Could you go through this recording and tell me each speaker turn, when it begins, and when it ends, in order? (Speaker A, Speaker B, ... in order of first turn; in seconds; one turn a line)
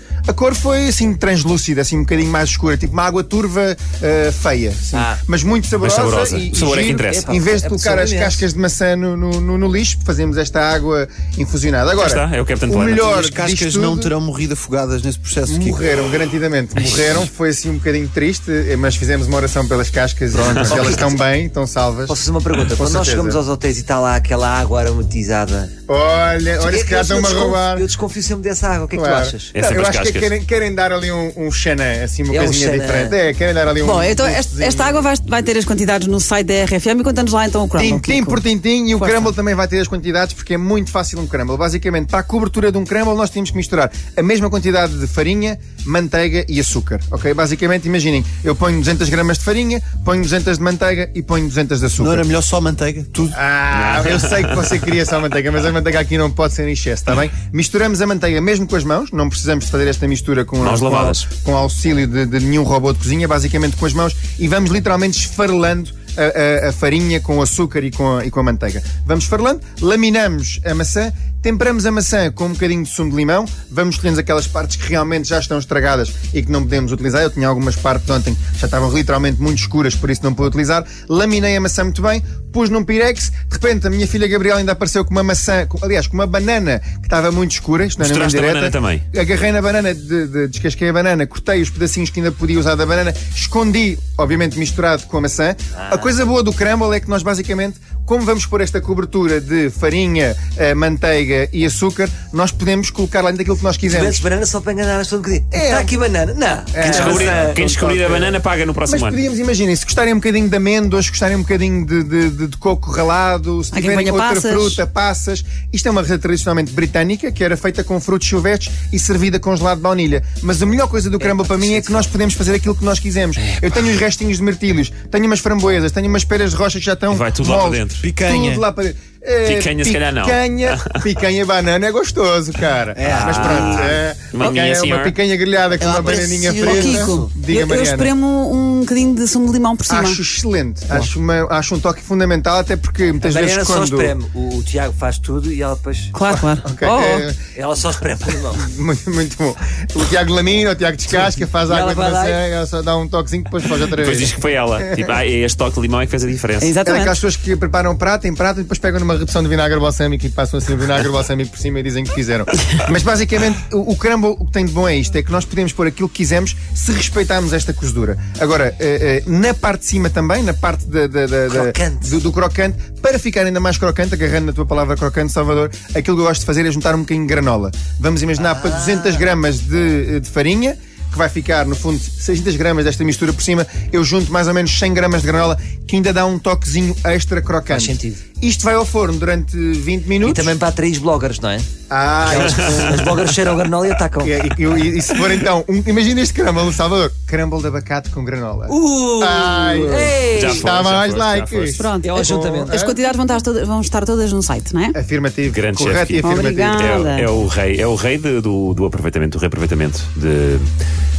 Speaker A: 0.3-14.1
Speaker B: 4.9-5.2
Speaker C: 5.8-7.2
Speaker B: 7.0-8.5
Speaker C: 12.0-13.1
Speaker D: 13.0-15.8
Speaker A: 15.5-22.2
Speaker B: 20.4-21.1
Speaker B: 22.1-25.7
Speaker A: 22.8-23.4
Speaker A: 25.9-27.9
Speaker B: 26.6-29.5
Speaker A: 28.9-35.0
Speaker C: 29.5-30.3
Speaker B: 32.3-33.2
Speaker E: 33.8-38.4
Speaker A: 37.8-52.3
Speaker E: 39.0-39.3
Speaker D: 52.0-53.4
Speaker A: 53.3-104.3
Speaker C: 53.7-54.7
Speaker C: 60.6-61.2
Speaker C: 88.0-89.0
Speaker B: 95.8-96.2
Speaker B: 103.8-107.6
Speaker A: 105.5-106.0
Speaker A: 106.7-138.1
Speaker C: 106.8-109.2
Speaker E: 113.7-114.8
Speaker B: 121.2-122.1
Speaker C: 127.1-128.1
Speaker D: 128.0-128.6
Speaker C: 129.4-131.1
Speaker D: 133.0-133.8
Speaker B: 133.0-133.3
Speaker C: 133.1-135.2
Speaker D: 135.8-137.2
Speaker E: 136.6-140.2
Speaker A: 139.9-144.2
Speaker B: 143.2-146.1
Speaker E: 146.1-147.2
Speaker A: 146.3-147.4
Speaker B: 147.6-148.7
Speaker A: 148.5-155.1
Speaker B: 151.2-152.4
Speaker C: 153.9-156.7
Speaker E: 156.6-157.2
Speaker A: 156.8-190.6
Speaker B: 171.5-172.2
Speaker B: 178.4-179.3
Speaker B: 187.7-188.2
Speaker B: 190.2-191.7
Speaker A: 191.9-192.9
Speaker B: 192.2-194.4
Speaker C: 192.7-193.2
Speaker A: 194.2-203.0
Speaker B: 198.7-200.7
Speaker C: 200.2-201.8
Speaker E: 201.8-205.0
Speaker B: 202.0-202.9
Speaker A: 204.9-207.1
Speaker C: 205.5-210.7
Speaker E: 206.2-207.3